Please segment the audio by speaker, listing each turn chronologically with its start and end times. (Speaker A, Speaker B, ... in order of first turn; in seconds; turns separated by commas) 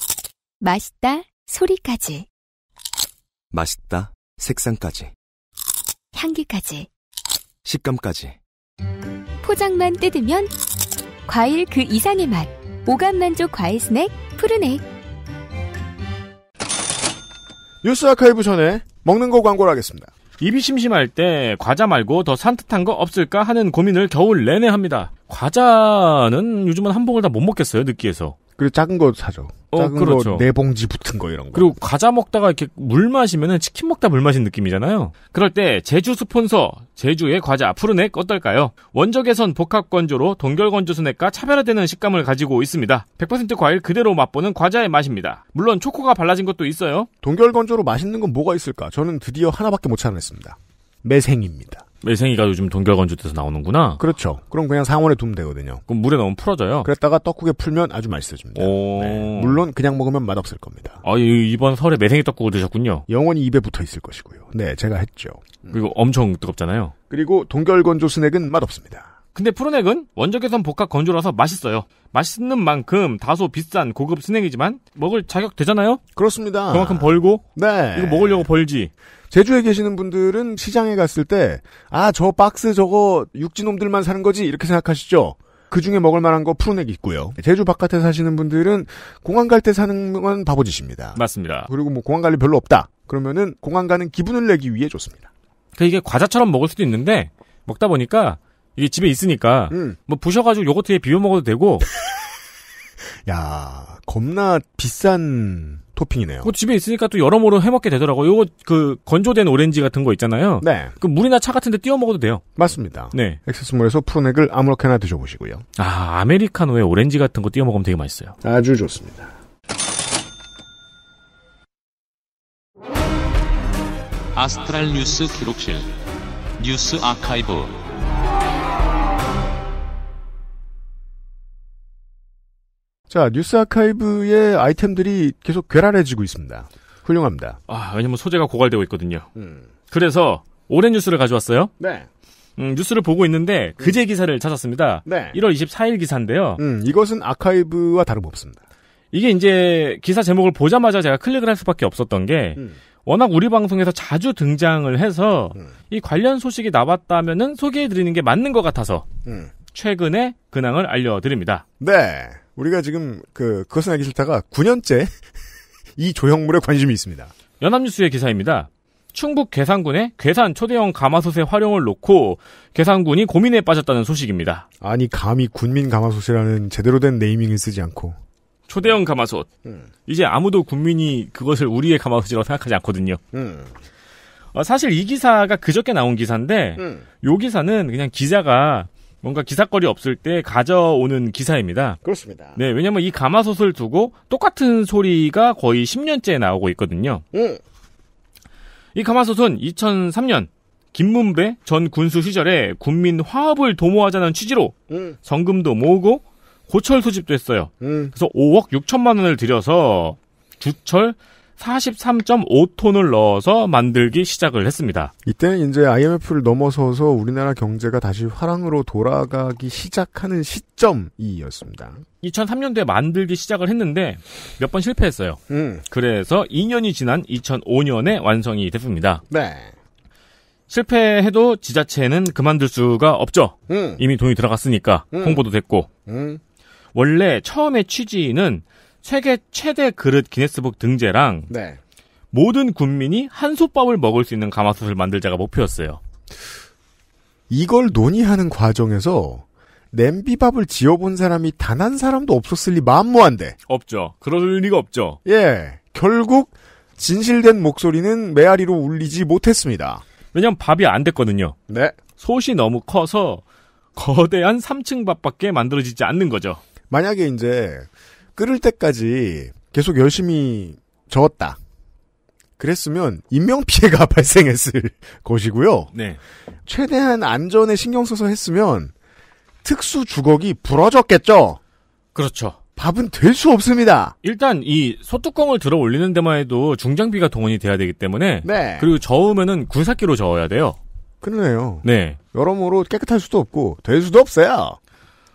Speaker A: 0.6-2.2, Speaker B: 3.5-5.0, Speaker A: 6.1-6.9, Speaker B: 7.7-8.3, Speaker A: 9.4-10.5, Speaker A: 11.2-14.8, Speaker C: 17.8-20.1, Speaker D: 20.4-28.4, Speaker C: 28.6-31.8, Speaker D: 29.7-30.4, Speaker D: 31.5-47.1, Speaker C: 47.2-51.8, Speaker D: 52.0-54.0, Speaker C: 54.0-55.8, Speaker D: 55.9-56.9, Speaker C: 56.8-61.0, Speaker D: 58.5-59.6, Speaker D: 61.0-63.0, Speaker C: 63.1-65.8, Speaker D: 65.7-66.9, Speaker C: 67.1-69.1, Speaker D: 69.3-76.0, Speaker C: 76.1-78.4, Speaker D: 76.7-77.4, Speaker D: 77.9-78.9, Speaker C: 79.3-95.3, Speaker D: 91.2-91.7, Speaker D: 95.8-101.9, Speaker C: 99.7-100.0, Speaker C: 103.2-106.5, Speaker D: 106.4-112.4, Speaker C: 110.6-110.9, Speaker C: 112.5-115.6, Speaker D: 113.1-113.4, Speaker D: 115.8-118.3, Speaker C: 118.4-119.3, Speaker E: 124.3-125.8, Speaker E: 126.6-127.8, Speaker C: 133.1-137.6, Speaker D: 137.7-139.3, Speaker C: 139.3-139.7, Speaker D: 139.9-141.7, Speaker C: 141.8-142.1, Speaker D: 142.6-146.6, Speaker C: 145.0-145.4, Speaker C: 146.6-148.6, Speaker D: 149.1-159.1, Speaker C: 159.2-159.5, Speaker D: 159.7-161.6, Speaker C: 161.8-165.1, Speaker C: 166.0-167.3, Speaker D: 167.6-174.6, Speaker C: 174.8-178.2, Speaker D: 178.7-179.5, Speaker D: 180.1-183.2, Speaker C: 183.3-183.7, Speaker D: 184.5-192.0, Speaker C: 186.8-187.0, Speaker C: 192.0-192.6, Speaker D: 192.6-197.2, Speaker C: 197.3-197.6, Speaker D: 198.9-215.1, Speaker C: 204.9-205.2, Speaker C: 207.8-208.1, Speaker C: 215.2-222.0, Speaker D: 222.2-229.2, Speaker C: 225.5-225.8, Speaker C: 229.3-229.7, Speaker D: 230.7-235.9, Speaker C: 233.7-234.0, Speaker C: 235.1-235.4, Speaker C: 236.1-236.4, Speaker D: 236.9-241.5, Speaker C: 241.5-241.8, Speaker D: 242.3-246.0, Speaker C: 247.5-253.6, Speaker D: 253.7-255.2, Speaker C: 255.2-260.0, Speaker D: 260.3-261.6, Speaker C: 261.7-261.9, Speaker D: 262.2-263.4, Speaker D: 263.9-266.6, Speaker C: 266.9-271.6, Speaker C: 272.6-275.9, Speaker D: 275.9-276.2, Speaker C: 276.6-278.9, Speaker C: 279.6-281.6, Speaker D: 282.1-282.6, Speaker C: 282.8-284.1, Speaker D: 284.2-290.8, Speaker C: 288.4-288.9, Speaker C: 291.2-294.8, Speaker D: 291.8-292.2